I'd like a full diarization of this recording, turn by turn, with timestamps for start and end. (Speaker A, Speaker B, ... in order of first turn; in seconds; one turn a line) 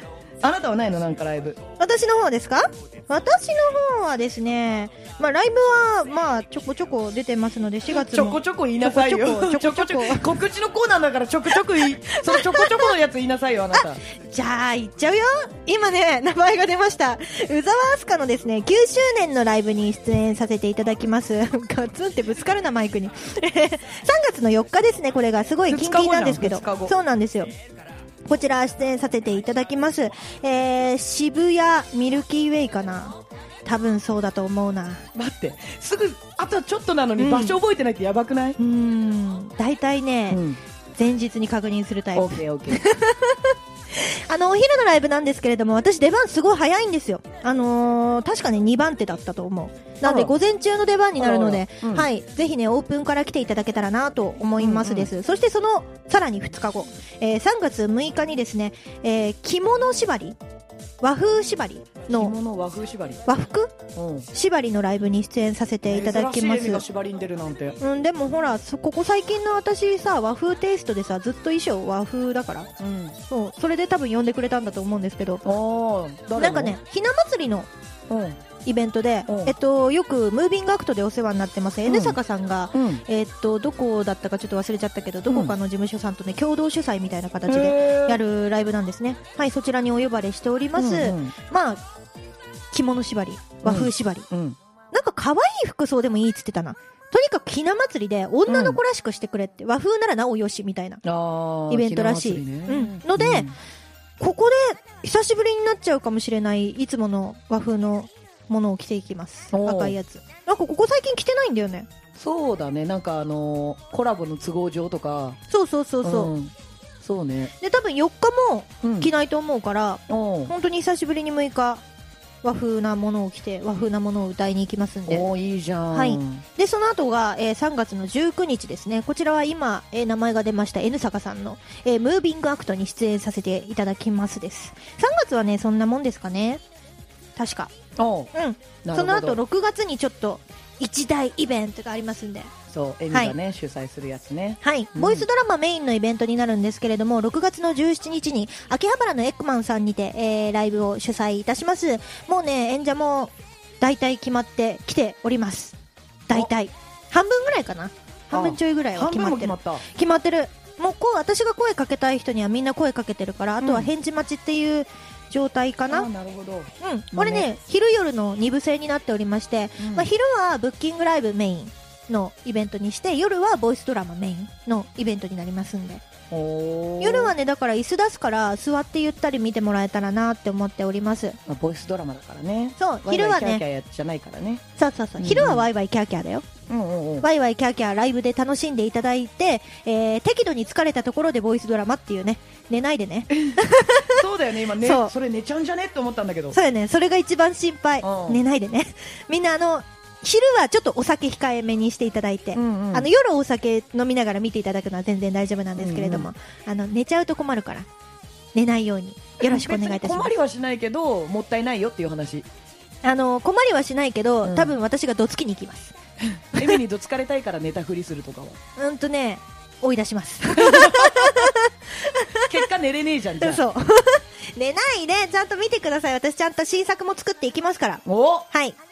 Speaker A: 0.4-1.6
Speaker B: 1.8-10.3
Speaker A: 7.9-14.0
Speaker B: 11.8-12.9
Speaker B: 13.7-27.5
Speaker A: 25.7-26.9
Speaker B: 28.3-35.0
Speaker A: 35.1-38.6
Speaker B: 37.2-37.6
Speaker B: 38.6-40.4
Speaker A: 40.3-40.6
Speaker B: 41.0-60.4
Speaker A: 42.1-42.8
Speaker A: 50.0-50.3
Speaker A: 51.2-52.1
Speaker A: 54.6-55.1
Speaker B: 61.0-62.4
Speaker A: 62.1-63.3
Speaker B: 63.3-63.8
Speaker A: 63.9-64.3
Speaker B: 64.3-66.8
Speaker A: 65.9-67.8
Speaker B: 67.8-72.7
Speaker A: 72.8-73.2
Speaker B: 73.3-75.4
Speaker A: 75.4-76.8
Speaker B: 76.4-77.7
Speaker A: 78.1-78.4
Speaker B: 78.7-91.8
Speaker A: 79.3-79.5
Speaker A: 81.8-82.2
Speaker A: 82.7-83.0
Speaker A: 85.3-85.5
Speaker A: 87.5-88.2
Speaker A: 90.8-91.3
Speaker B: 92.7-94.3
Speaker A: 93.6-94.6
Speaker B: 94.9-101.0
Speaker A: 98.5-98.8
Speaker A: 101.0-103.5
Speaker B: 101.7-103.5
Speaker B: 104.2-111.9
Speaker A: 109.5-110.0
Speaker A: 112.2-115.4
Speaker B: 115.5-116.3
Speaker A: 116.0-117.5
Speaker B: 117.6-121.8
Speaker A: 118.8-119.1
Speaker A: 120.1-120.5
Speaker B: 122.4-125.3
Speaker A: 125.1-126.4
Speaker B: 125.9-136.6
Speaker B: 137.4-137.7
Speaker A: 138.0-138.3
Speaker B: 138.3-142.5
Speaker A: 138.8-139.4
Speaker A: 142.7-145.3
Speaker B: 144.6-155.8
Speaker B: 156.3-166.1
Speaker A: 158.3-159.8
Speaker A: 163.6-163.9
Speaker A: 165.9-167.5
Speaker B: 166.8-176.0
Speaker A: 169.8-170.1
Speaker A: 176.3-177.3
Speaker B: 177.0-181.4
Speaker A: 181.5-184.6
Speaker B: 182.8-183.6
Speaker B: 184.8-186.4
Speaker A: 185.2-185.7
Speaker A: 186.7-187.3
Speaker B: 187.2-194.2
Speaker A: 193.4-196.6
Speaker B: 194.8-195.1
Speaker B: 196.5-207.9
Speaker A: 198.0-198.4
Speaker A: 202.6-203.1
Speaker A: 205.8-206.3
Speaker B: 208.6-210.3
Speaker A: 209.4-212.5
Speaker B: 213.0-215.9
Speaker A: 214.4-214.7
Speaker A: 216.3-218.6
Speaker B: 218.8-222.6
Speaker A: 220.6-221.5
Speaker A: 222.4-223.6
Speaker B: 223.4-228.8
Speaker A: 228.1-228.5